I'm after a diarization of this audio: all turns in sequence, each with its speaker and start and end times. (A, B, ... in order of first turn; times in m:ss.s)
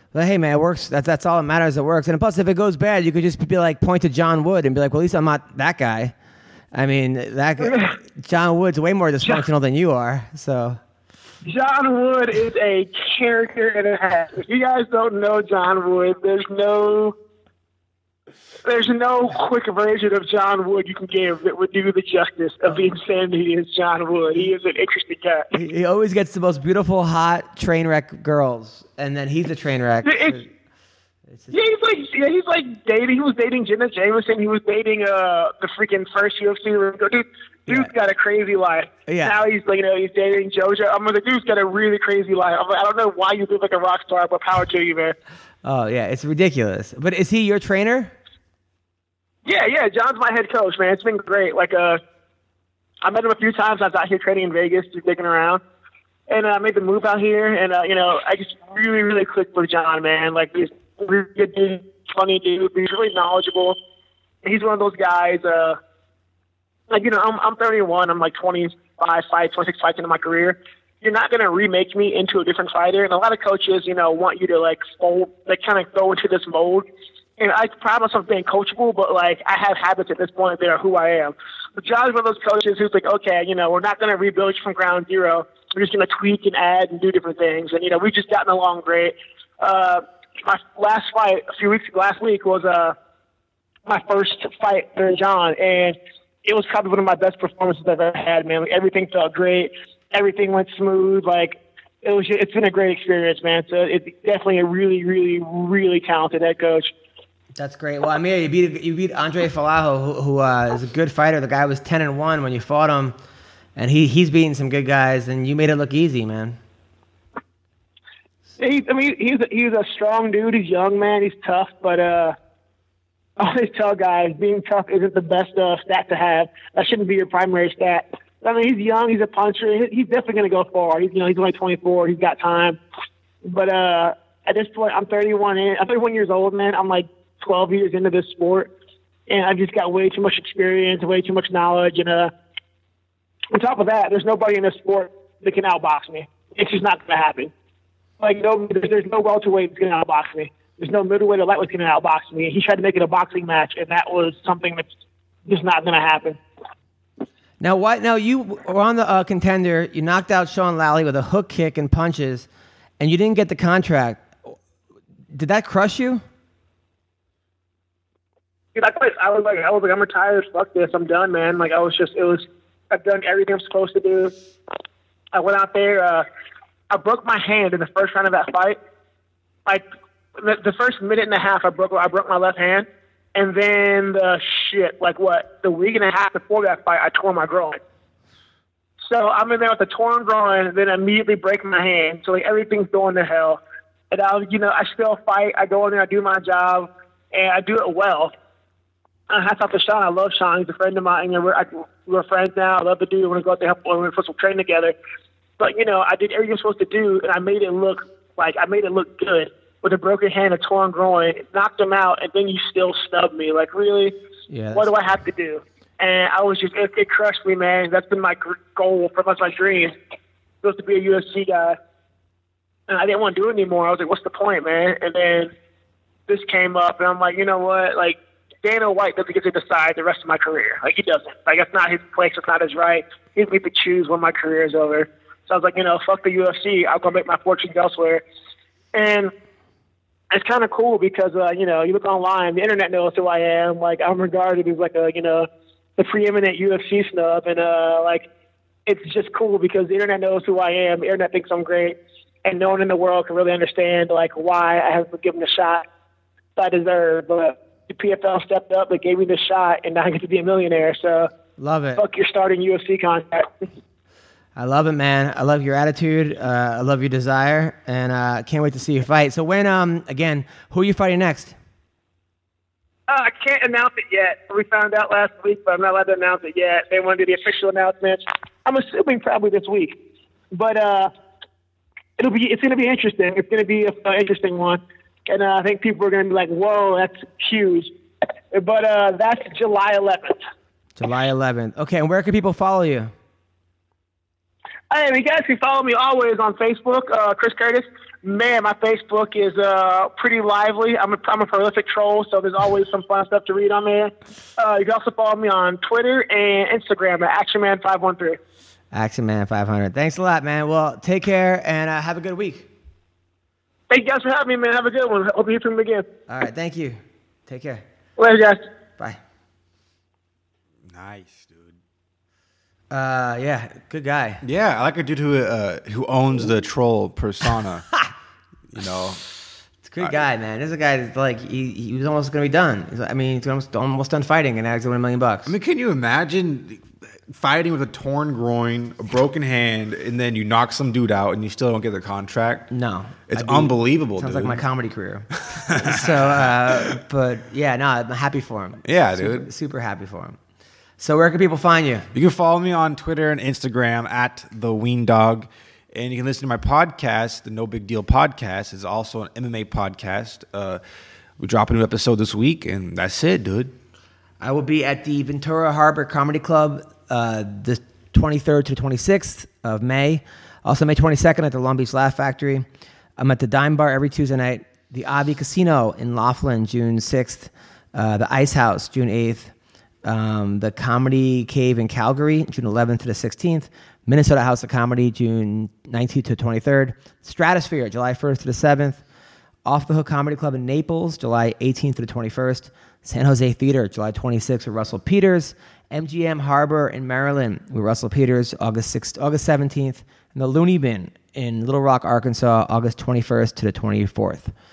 0:00.1-0:06.1 A
0:06.7-0:10.8 A
0:07.6-0:07.9 B
0:11.4-0:17.1 B
0:18.6-0:25.5 B
0:25.5-0:30.5 A
0:30.0-0:30.4 B
0:31.3-0:31.6 A
0:31.5-0:45.1 B
0:37.7-0:37.9 A
0:39.1-0:39.4 A
0:45.6-0:48.1 A
0:49.4-0:52.0 B
0:53.0-0:55.6 B
0:56.3-1:03.8 B
1:04.4-1:05.8 B
1:06.9-1:16.8 B
1:17.4-1:32.9 B
1:33.8-1:46.9 B
1:47.6-1:53.2 A
1:53.8-1:56.6 A
1:58.6-2:02.3 B
2:03.4-2:12.8 B
2:13.4-2:18.7 B
2:19.3-2:22.3 B
2:23.5-2:27.5 B
2:28.2-2:34.8 B
2:35.5-2:36.4 B
2:37.6-2:42.5 A
2:43.0-2:44.4 A
2:45.3-2:46.2 A
2:48.7-2:54.3 B
2:55.3-2:56.2 B
2:56.9-2:58.8 B
3:00.4-3:07.8 B
3:09.0-3:13.6 B
3:14.1-3:18.3 B
3:19.3-3:24.9 B
3:25.6-3:34.1 B
3:34.5-3:34.9 A
3:34.7-3:40.0 B
3:40.6-3:41.8 B
3:42.9-3:45.5 B
3:46.3-3:58.2 B
3:58.9-3:59.3 B
4:00.3-4:08.3 B
4:08.8-4:15.8 B
4:16.6-4:21.3 B
4:21.6-4:22.0 A
4:22.0-4:23.5 B
4:24.6-4:31.5 A
4:33.1-4:39.9 B
4:40.5-4:41.1 B
4:42.2-4:47.9 B
4:48.5-4:50.4 B
4:51.0-4:53.1 A
4:54.9-5:08.4 B
5:08.9-5:12.7 A
5:13.9-5:16.0 B
5:16.3-5:17.8 A
5:18.2-5:18.6 B
5:20.8-5:21.8 C
5:22.9-5:24.4 A
5:24.4-5:27.9 C
5:28.7-5:29.2 C
5:29.8-5:35.5 A
5:35.4-5:42.7 C
5:42.7-5:50.4 A
5:43.3-5:44.6 C
5:45.6-5:46.6 C
5:48.8-5:49.5 C
5:51.0-5:52.1 A
5:52.1-6:00.8 C
6:01.4-6:03.7 C
6:04.4-6:12.6 A
6:13.2-6:19.5 A
6:20.0-6:29.0 A
6:29.6-6:44.5 A